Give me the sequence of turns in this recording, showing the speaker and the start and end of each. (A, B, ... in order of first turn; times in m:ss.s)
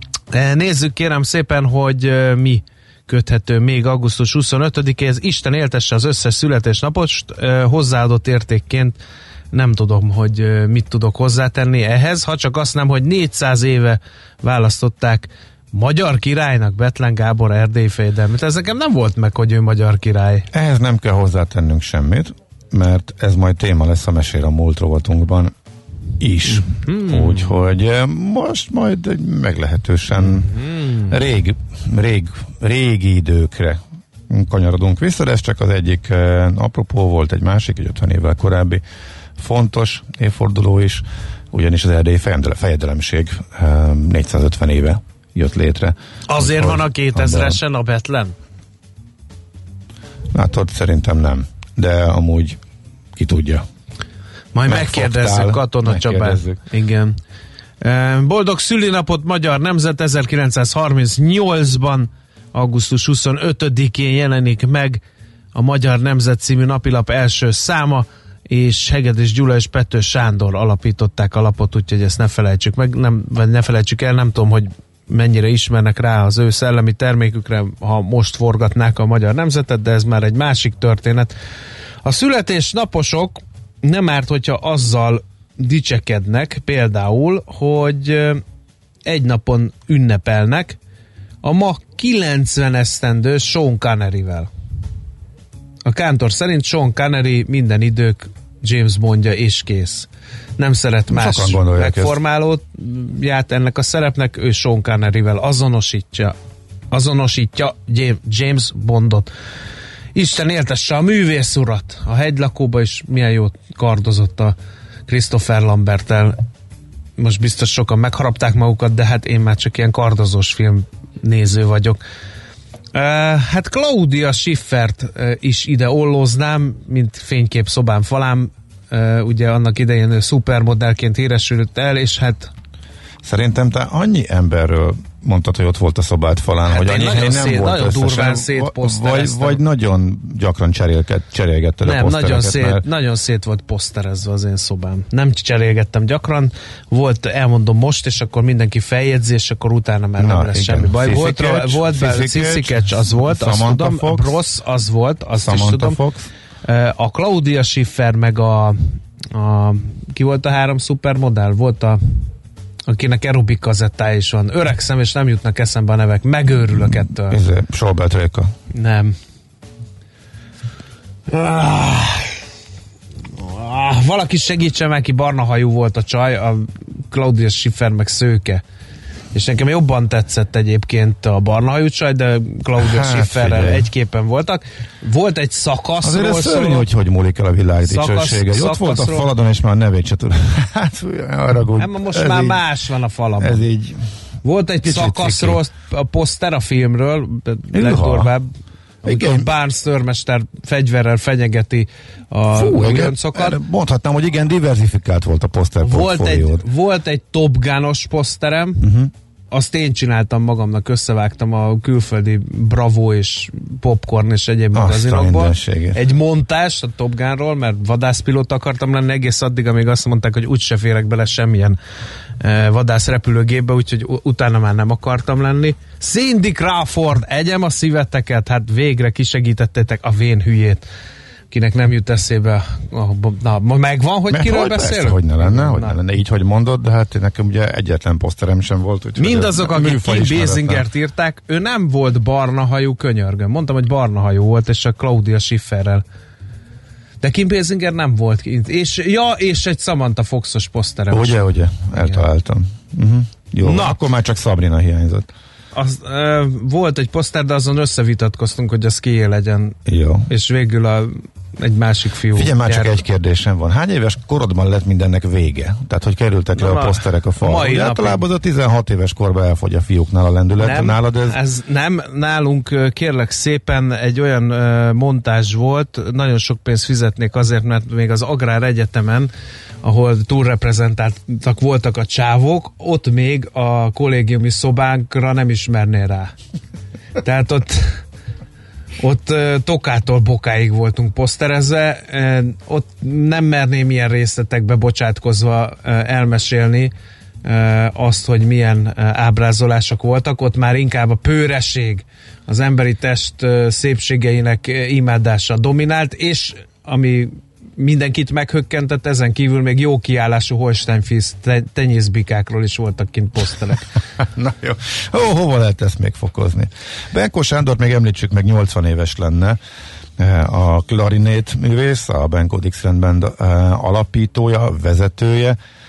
0:00.3-0:09.0 A
0:09.5-0:20.5 A
0:20.5-0:25.5 B
0:26.2-0:38.8 B
0:26.5-0:27.5 A
0:30.2-0:31.2 A
0:39.4-0:47.6 B
0:46.3-0:48.4 A
0:50.3-0:52.6 B
0:53.2-0:53.6 B
0:54.5-0:57.2 A
0:54.7-0:56.6 B
0:57.8-1:05.0 A
1:05.5-1:21.3 A
1:22.0-1:28.4 A
1:29.0-1:30.8 A
1:31.4-1:34.5 A
1:35.8-1:46.4 A
1:41.1-1:42.2 B
1:46.9-1:49.3 A
1:50.2-1:54.6 A
1:55.1-1:56.4 A
1:57.2-2:02.0 A
2:02.9-2:12.5 A
2:13.2-2:22.8 B
2:16.7-2:19.6 A
2:21.8-2:36.0 A
2:30.2-2:34.4 B
2:35.4-2:36.3 B
2:36.6-2:42.0 A
2:42.9-2:47.4 A
2:46.7-2:48.5 B
2:48.7-2:49.2 A
2:51.3-2:52.4 A
2:53.4-2:58.6 A
2:59.3-3:06.9 A
3:02.8-3:03.9 B
3:06.0-3:12.6 B
3:07.8-3:09.3 A
3:11.8-3:13.6 A
3:13.4-3:14.1 B
3:14.4-3:18.5 A
3:14.8-3:15.6 B
3:17.7-3:18.3 B
3:19.0-3:23.6 A
3:19.0-3:19.5 B
3:22.5-3:26.7 B
3:25.8-3:28.8 A
3:28.8-3:29.1 B
3:29.5-3:41.8 A
3:34.7-3:36.0 B
3:42.4-3:50.8 A
3:51.5-3:56.0 A
3:54.3-4:00.9 B
3:59.2-4:06.0 A
4:07.2-4:12.2 A
4:11.1-4:15.3 B
4:13.6-4:14.0 A
4:15.8-4:19.8 A
4:19.9-4:20.3 B
4:20.3-4:23.0 A
4:22.3-4:31.4 B
4:26.6-4:28.2 A
4:30.6-4:39.3 A
4:39.8-4:46.3 A
4:47.2-4:48.0 A
4:49.0-4:56.9 A
4:57.4-5:13.9 A
5:14.2-5:19.6 B
5:20.2-5:25.6 B